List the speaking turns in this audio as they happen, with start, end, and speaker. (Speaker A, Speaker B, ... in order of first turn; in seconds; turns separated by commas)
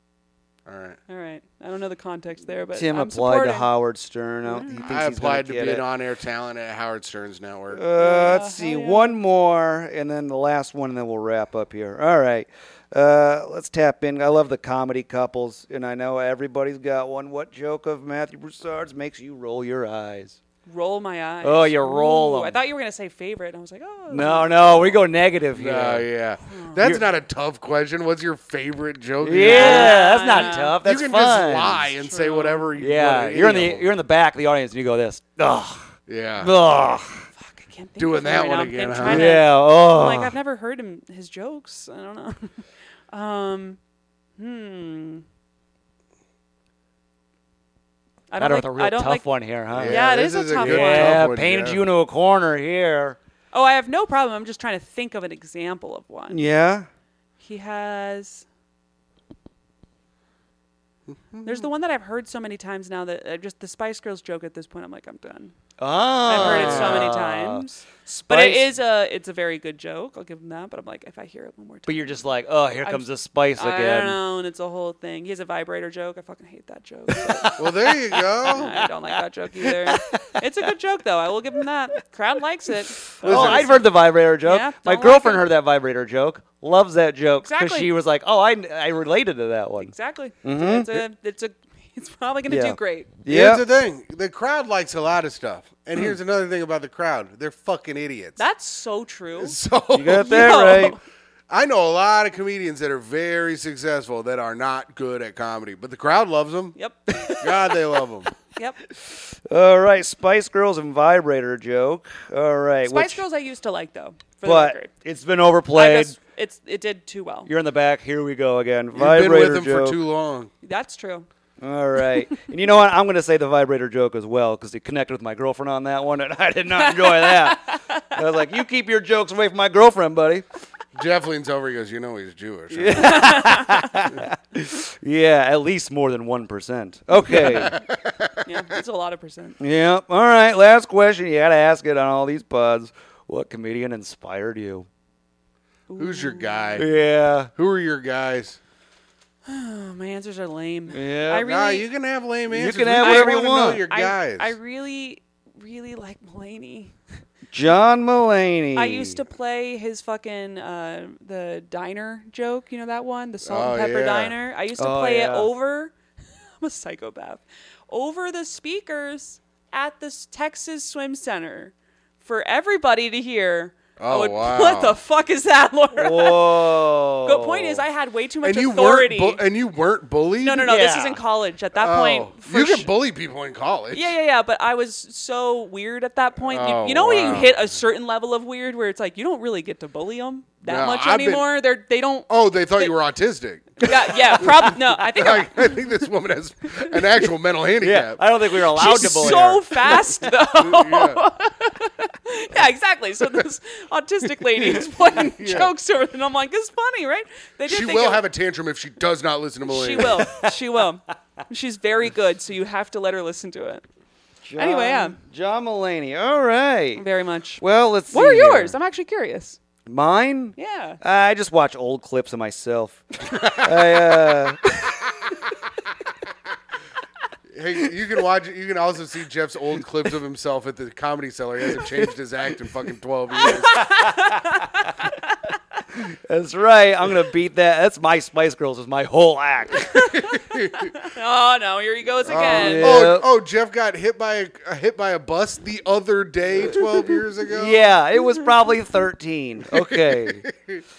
Speaker A: 0.7-1.0, Speaker B: 1.1-3.7, Speaker C: 2.7-5.9, Speaker B: 4.5-4.8, Speaker A: 4.8-7.8, Speaker C: 7.7-20.4, Speaker B: 8.0-9.1, Speaker B: 20.7-25.0, Speaker C: 21.4-22.6, Speaker C: 24.1-26.1, Speaker A: 25.6-33.9, Speaker B: 26.5-26.9, Speaker C: 26.8-27.0, Speaker C: 29.2-31.9, Speaker B: 29.4-30.8, Speaker B: 32.0-32.7, Speaker C: 32.8-37.3, Speaker A: 36.1-36.5, Speaker B: 37.4-43.8, Speaker A: 38.0-39.4, Speaker C: 39.0-40.3, Speaker B: 44.4-45.2, Speaker B: 48.3-51.2, Speaker C: 48.4-53.2, Speaker A: 49.8-51.9, Speaker B: 53.5-56.4, Speaker C: 56.3-56.9, Speaker B: 57.4-58.5, Speaker A: 61.1-61.7, Speaker B: 61.4-65.5, Speaker C: 65.8-68.7, Speaker B: 66.2-72.2, Speaker A: 66.3-67.2, Speaker C: 71.9-74.2, Speaker B: 73.6-77.7, Speaker C: 77.1-80.4, Speaker A: 77.6-78.7, Speaker B: 78.4-85.4, Speaker A: 83.2-83.8, Speaker C: 83.2-89.9, Speaker B: 87.4-87.9, Speaker B: 89.8-93.2, Speaker C: 90.4-91.0, Speaker C: 92.5-93.6, Speaker A: 93.3-98.4, Speaker B: 98.4-101.0, Speaker A: 99.4-100.6, Speaker C: 99.9-101.0, Speaker A: 101.5-106.8, Speaker B: 106.8-107.7, Speaker C: 107.1-107.5, Speaker A: 107.4-108.3, Speaker C: 109.0-113.2, Speaker B: 112.9-114.9, Speaker C: 114.4-116.2, Speaker B: 115.7-117.5, Speaker C: 117.5-120.0, Speaker A: 119.0-120.5, Speaker B: 120.6-121.3, Speaker C: 121.6-130.4, Speaker B: 126.7-128.2, Speaker A: 130.9-133.2, Speaker C: 132.7-137.8, Speaker B: 132.9-134.1, Speaker A: 137.6-138.5, Speaker B: 138.4-139.6, Speaker C: 139.6-144.9, Speaker B: 145.9-146.8, Speaker A: 146.0-146.9, Speaker C: 146.8-147.5, Speaker A: 147.6-148.6, Speaker B: 149.5-151.9, Speaker C: 150.9-151.5, Speaker A: 151.4-154.6, Speaker C: 152.5-153.8, Speaker B: 153.0-156.9, Speaker C: 157.5-159.2, Speaker B: 158.8-165.9, Speaker A: 163.4-164.3, Speaker C: 164.8-165.5, Speaker B: 166.6-179.4, Speaker A: 174.0-175.0, Speaker C: 176.0-177.8, Speaker A: 178.4-180.8, Speaker B: 180.4-182.9, Speaker C: 180.7-181.2, Speaker A: 181.8-184.2, Speaker B: 183.9-192.9, Speaker A: 186.5-187.6, Speaker A: 190.7-191.4, Speaker A: 192.3-198.2, Speaker B: 193.8-195.8, Speaker C: 197.8-199.7, Speaker B: 198.7-208.3, Speaker A: 200.5-201.2, Speaker A: 204.6-205.7, Speaker A: 207.7-210.3, Speaker B: 209.7-213.8, Speaker C: 214.4-217.0, Speaker B: 214.6-215.2, Speaker B: 217.0-219.6, Speaker C: 217.6-218.8, Speaker C: 219.9-224.6, Speaker B: 220.6-221.0, Speaker A: 227.5-233.8, Speaker C: 231.8-232.1, Speaker B: 233.4-235.4, Speaker C: 233.4-234.9, Speaker C: 235.9-240.1, Speaker B: 239.9-243.1, Speaker A: 240.2-240.9, Speaker C: 242.2-243.3, Speaker A: 242.3-247.9, Speaker C: 247.5-250.5, Speaker A: 249.7-250.8